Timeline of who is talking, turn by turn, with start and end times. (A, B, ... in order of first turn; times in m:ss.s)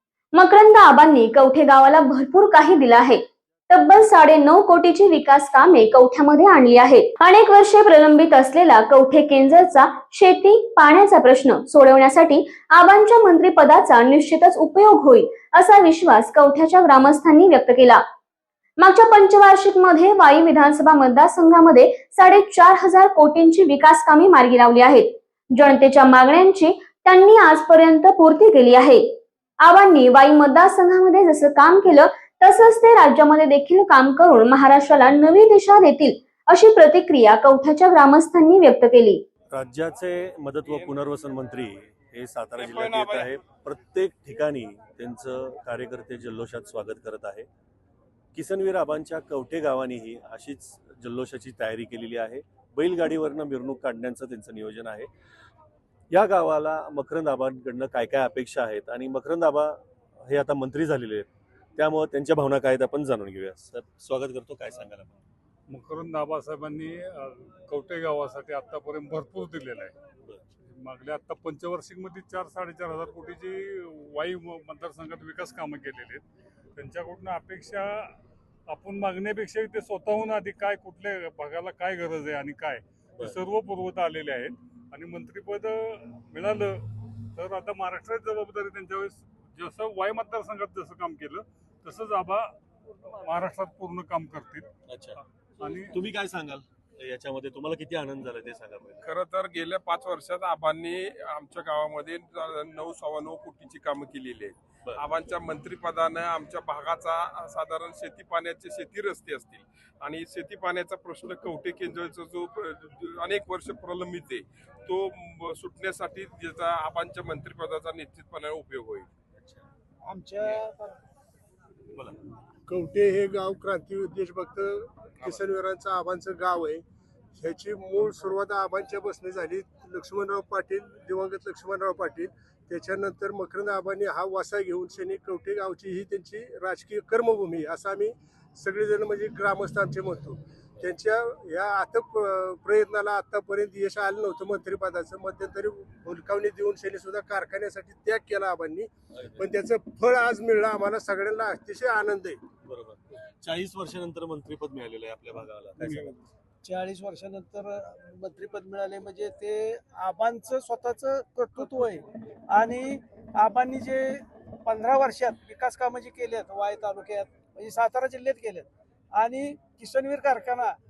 0:00.4-0:18.0 A
0:18.8-0:29.0 A
0:29.6-0:39.2 A
0:39.5-0:47.5 B
0:42.5-0:43.3 C
0:48.3-0:55.1 B
0:56.1-1:05.2 B
1:05.7-1:10.0 D
1:10.6-1:16.2 D
1:16.8-1:18.2 D
1:18.7-1:32.5 D
1:33.2-1:34.7 D
1:34.9-1:35.2 B
1:35.6-1:36.0 D
1:35.9-1:39.1 B
1:39.0-1:59.1 C
1:44.8-1:45.1 B
1:59.4-1:59.6 B
2:00.0-2:01.0 E
2:02.7-2:06.8 F
2:07.4-2:32.5 F
2:29.2-2:29.4 B
2:32.6-2:36.2 B
2:35.8-2:36.1 D
2:36.6-2:50.8 E